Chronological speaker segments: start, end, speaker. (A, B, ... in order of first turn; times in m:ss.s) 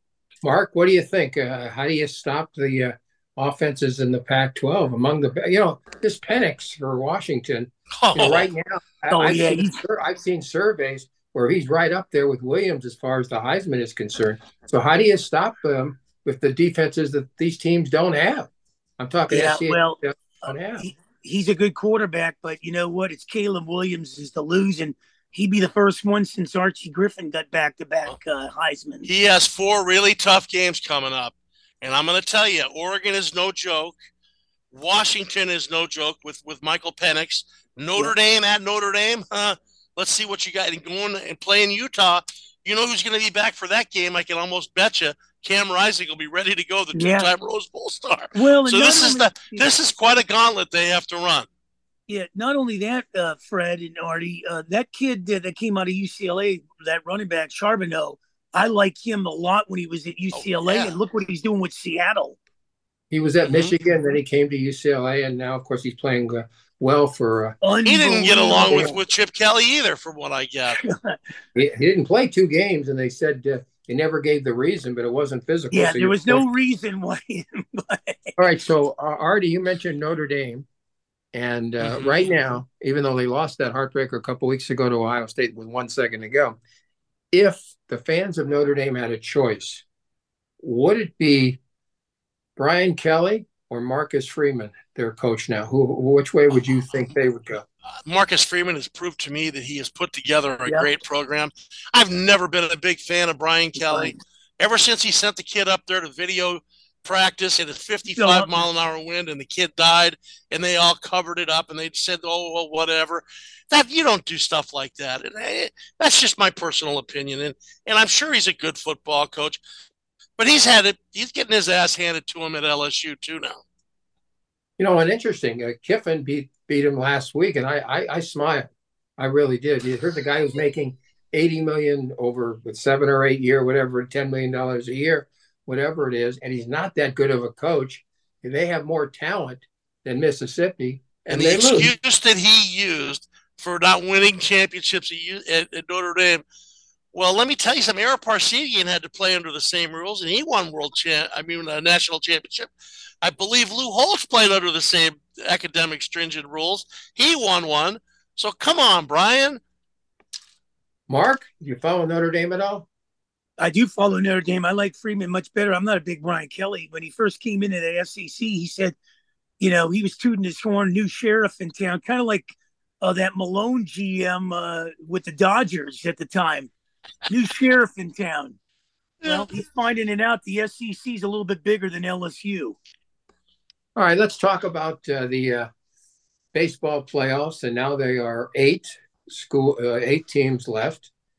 0:00.4-0:20.8 A
0:08.0-0:08.5 B
0:09.1-0:09.8 C
0:19.3-0:29.1 C
0:29.0-0:34.0 B
0:34.7-0:51.5 B
0:46.9-0:47.3 C
0:48.3-0:49.7 C
0:52.1-1:02.4 C
1:00.3-1:01.0 B
1:03.1-1:07.6 A
1:03.4-1:03.7 B
1:07.6-1:09.0 C
1:07.8-1:10.8 B
1:08.7-1:08.9 A
1:10.8-1:11.2 C
1:11.5-1:16.4 A
1:15.7-1:18.3 C
1:18.4-1:20.6 A
1:21.3-1:26.6 A
1:21.8-1:22.2 B
1:27.3-1:29.8 A
1:30.6-1:31.6 A
1:32.6-1:37.6 A
1:38.0-1:59.6 B
1:43.8-1:44.2 C
1:48.1-1:48.6 C
2:00.4-2:03.6 B
2:04.8-2:21.9 A
2:21.3-2:26.4 B
2:27.1-2:39.6 B
2:41.1-2:42.8 A
2:43.6-2:49.0 C
2:49.6-2:56.7 C
2:57.3-2:58.6 C
2:59.2-2:59.5 B
2:59.2-3:02.8 C
3:04.0-3:05.7 A
3:06.5-3:11.1 A